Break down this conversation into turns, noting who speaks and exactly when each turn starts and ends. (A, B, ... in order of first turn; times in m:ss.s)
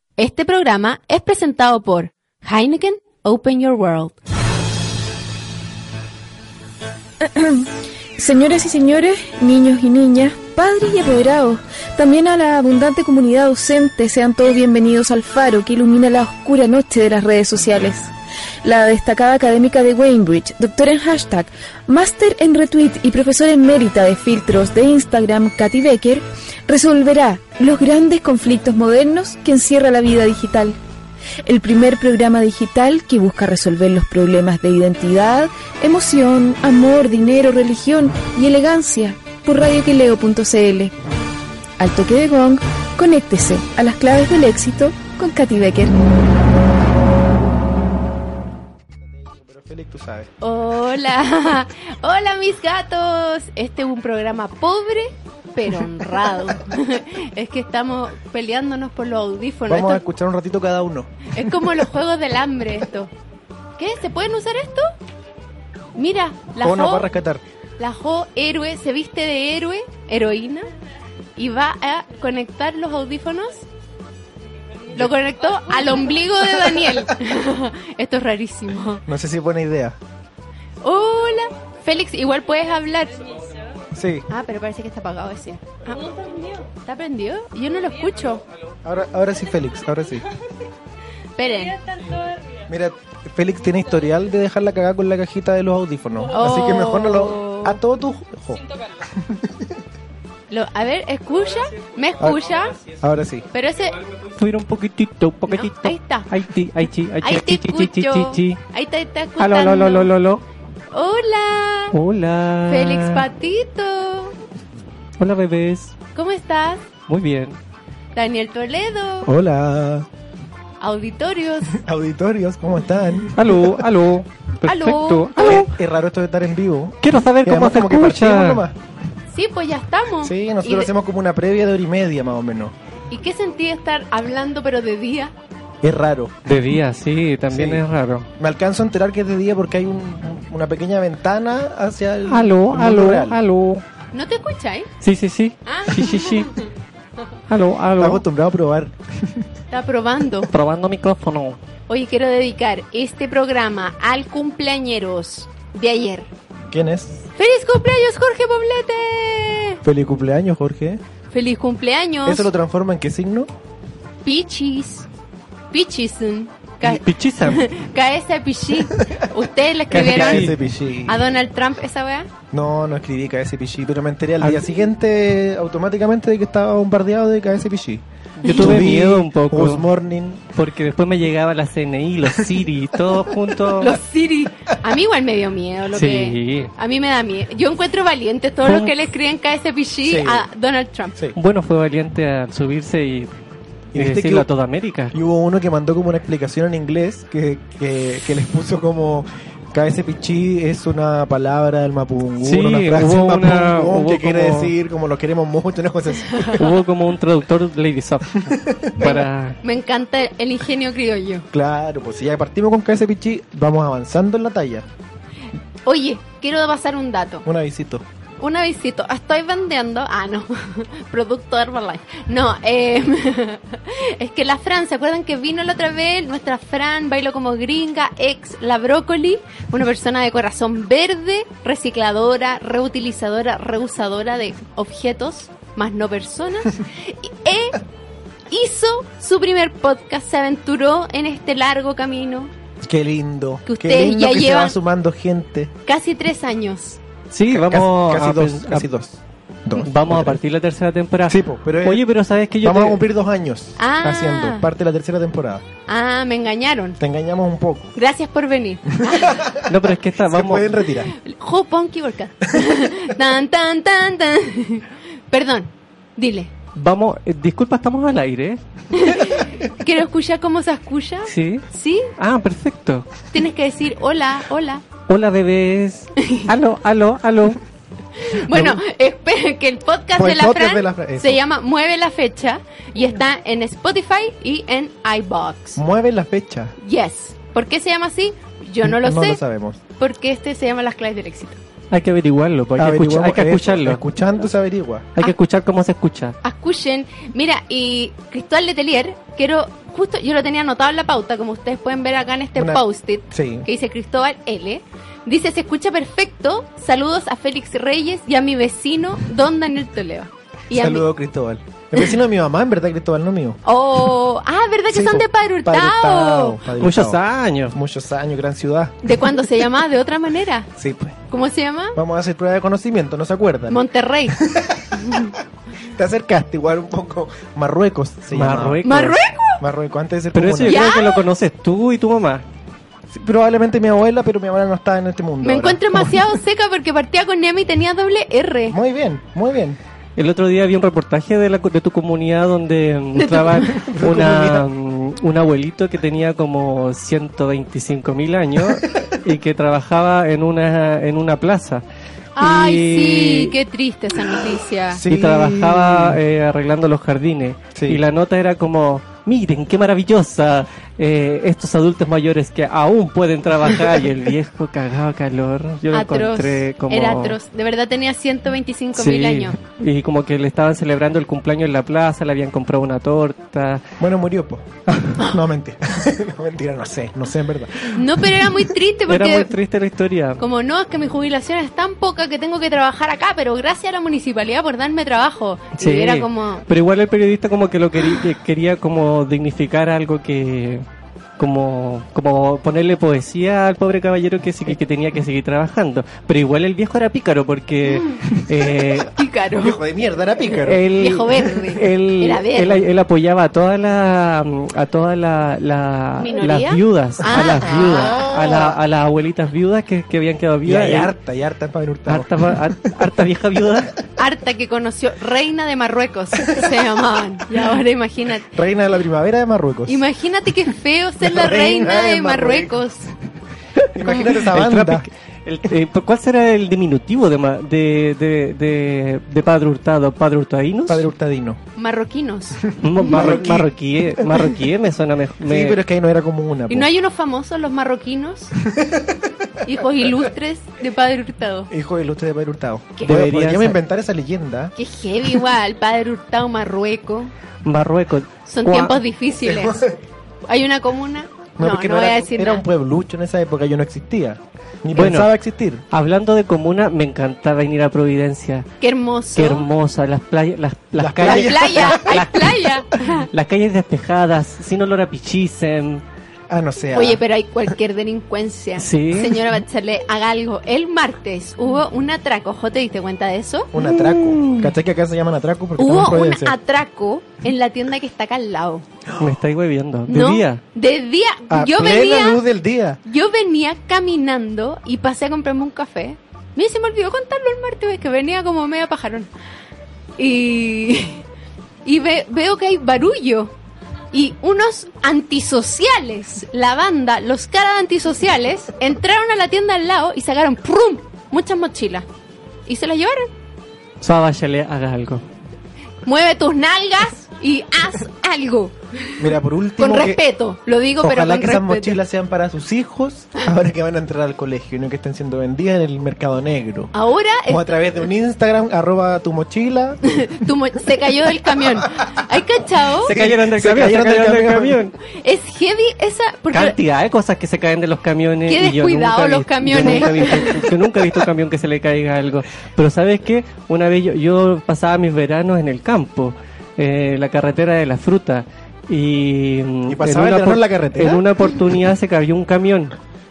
0:00.2-0:04.2 A
0:07.2-0:18.1 B
0:18.6-0:30.8 B
0:31.4-0:40.9 B
0:41.8-0:46.0 B
0:49.2-0:50.3 C
0:50.4-1:00.0 A
0:59.7-1:01.6 C
1:01.3-1:03.1 A
1:03.8-1:04.9 A
1:06.0-1:07.1 A
1:06.6-1:07.4 C
1:07.8-1:10.6 A
1:11.4-1:13.7 A
1:14.9-1:19.0 A
1:19.1-1:20.0 C
1:20.8-1:23.4 A
1:23.9-1:24.2 C
1:24.3-1:28.4 A
1:28.8-1:30.2 C
1:31.4-1:31.8 A
1:32.7-1:39.7 C
1:36.3-1:37.8 A
1:40.5-1:42.8 A
1:42.2-1:43.4 C
1:43.5-1:44.0 A
1:44.3-1:48.6 D
1:45.4-1:46.3 A
1:47.2-1:50.1 A
1:49.4-1:50.4 D
1:50.9-1:52.0 A
1:51.9-1:53.2 D
1:52.7-1:54.3 A
1:55.2-1:55.9 D
1:56.1-1:56.8 A
1:57.1-1:57.6 D
1:58.1-1:59.3 A
1:59.2-2:00.1 C
2:00.8-2:01.8 A
2:01.7-2:03.8 C
2:03.4-2:05.7 D
2:04.6-2:05.7 A
2:05.4-2:08.8 C
2:07.0-2:08.6 D
2:09.3-2:10.9 A
2:10.2-2:12.7 C
2:13.1-2:15.3 A
2:15.8-2:16.5 C
2:16.4-2:18.3 D
2:17.5-2:17.8 C
2:18.4-2:23.4 C
2:22.3-2:23.8 D
2:24.1-2:24.9 A
2:25.0-2:26.5 D
2:25.7-2:26.6 A
2:27.5-2:28.2 D
2:28.0-2:29.4 C
2:29.7-2:30.5 A
2:30.5-2:31.6 D
2:31.9-2:36.3 A
2:36.7-2:37.2 C
2:37.4-2:39.8 A
2:39.8-2:41.0 C
2:41.3-2:42.5 A
2:42.2-2:43.5 C
2:44.2-2:45.1 A
2:45.7-2:50.5 A
2:46.8-2:47.7 D
2:49.9-2:50.6 D
2:49.9-2:51.3 C
2:51.0-2:52.3 A
2:52.5-3:00.5 C
2:54.4-2:54.7 D
2:58.4-2:59.8 D
2:58.4-2:58.8 A
3:00.5-3:04.0 D
3:03.8-3:11.2 A
3:05.9-3:06.7 D
3:08.6-3:08.9 D
3:10.0-3:10.5 C
3:11.4-3:13.3 D
3:13.9-3:14.5 C
3:13.9-3:15.1 D
3:15.1-3:26.7 C
3:22.4-3:24.7 D
3:26.6-3:29.6 D
3:28.4-3:28.9 C
3:29.0-3:31.5 A
3:31.5-3:34.8 C
3:35.8-3:37.4 A
3:37.4-3:38.0 C
3:38.4-3:57.8 A
3:58.5-4:02.5 A
4:02.8-4:05.7 C
4:03.7-4:04.8 A
4:05.8-4:07.0 A
4:07.3-4:08.9 D
4:07.5-4:10.4 C
4:09.8-4:13.0 D
4:11.3-4:12.0 C
4:12.6-4:15.6 C
4:13.8-4:14.7 A
4:15.9-4:17.0 A
4:17.0-4:17.9 C
4:18.0-4:19.4 A
4:19.0-4:21.1 C
4:19.7-4:20.8 D
4:21.0-4:26.5 A
4:26.8-4:29.1 D
4:28.9-4:32.1 A
4:31.3-4:31.7 D
4:32.2-4:33.1 D
4:33.3-4:34.8 A
4:35.1-4:37.6 D
4:36.2-4:36.5 A
4:38.2-4:45.8 A
4:38.5-4:38.8 D
4:40.2-4:41.4 C
4:45.8-4:46.7 C
4:46.8-4:49.4 A
4:48.8-4:49.8 C
4:50.0-4:51.6 A
4:51.9-4:54.0 D
4:52.8-4:55.1 C
4:55.2-4:56.4 D
4:56.4-5:11.0 A
5:02.6-5:03.7 C
5:10.7-5:13.6 C
5:13.6-5:16.6 A
5:14.9-5:17.2 C
5:16.8-5:17.8 D
5:17.7-5:19.2 C
5:19.0-5:20.7 A
5:20.8-5:21.2 C
5:21.3-5:22.0 A
5:22.0-5:25.2 C
5:23.7-5:24.4 A
5:25.0-5:25.3 A
5:26.0-5:28.8 C
5:28.3-5:29.2 D
5:28.8-5:29.6 A
5:29.6-5:30.9 C
5:30.3-5:32.4 D
5:30.7-5:31.2 A
5:33.1-5:36.2 C
5:35.4-5:38.8 A
5:38.7-5:39.8 C
5:40.2-5:51.8 D
5:43.2-5:43.7 A
5:43.7-5:44.7 C
5:52.4-5:55.0 A
5:52.4-5:53.6 D
5:54.9-5:56.2 C
5:55.0-6:07.4 D
5:57.8-5:58.0 C
6:05.9-6:09.6 A
6:09.0-6:13.8 D
6:14.0-6:18.2 C
6:17.9-6:19.5 A
6:19.1-6:20.4 D
6:20.4-6:26.6 A
6:25.8-6:30.8 D
6:31.4-6:39.2 D
6:39.1-6:39.8 A
6:39.6-6:40.8 C
6:40.5-6:51.1 D
6:40.9-6:42.9 A
6:46.2-6:48.2 A
6:47.4-6:48.8 C
6:50.6-6:52.9 C
6:52.1-6:54.0 D
6:54.2-6:58.5 A
6:58.5-7:00.0 C
6:59.9-7:03.1 A
7:01.2-7:02.8 C
7:03.8-7:11.0 D
7:04.0-7:05.1 C
7:10.9-7:11.6 C
7:11.8-7:13.5 A
7:12.8-7:15.8 D
7:13.0-7:14.5 C
7:15.5-7:16.9 C
7:16.7-7:18.6 A
7:18.6-7:19.3 C
7:19.6-7:21.7 A
7:21.7-7:24.7 C
7:23.0-7:23.8 D
7:24.8-7:27.3 A
7:27.6-7:29.0 D
7:28.5-7:29.9 A
7:29.4-7:30.0 C
7:30.5-7:32.6 A
7:31.6-7:35.8 C
7:35.0-7:35.3 D
7:35.9-7:38.7 D
7:38.8-7:39.7 A
7:39.4-7:46.0 D
7:41.0-7:42.3 C
7:41.2-7:43.3 A
7:46.5-7:47.2 C
7:46.9-7:53.7 A
7:48.8-7:49.4 D
7:53.7-7:56.6 C
7:53.8-7:54.7 D
7:55.8-7:58.8 A
7:59.2-8:00.6 D
8:00.1-8:02.4 A
8:01.5-8:03.0 C
8:03.0-8:09.3 A
8:10.2-8:11.2 A
8:11.8-8:13.5 A
8:14.1-8:22.1 A
8:22.7-8:23.3 A
8:24.0-8:25.2 D
8:26.0-8:29.2 A
8:29.2-8:30.2 C
8:29.8-8:32.0 A
8:31.0-8:36.9 C
8:36.9-8:37.8 A
8:37.5-8:40.0 C
8:40.1-8:43.1 A
8:43.0-8:45.0 D
8:43.1-8:44.8 C
8:45.1-8:46.8 A
8:46.5-9:02.9 D
8:48.5-8:50.6 A
8:49.7-8:50.6 C
8:59.9-9:01.2 C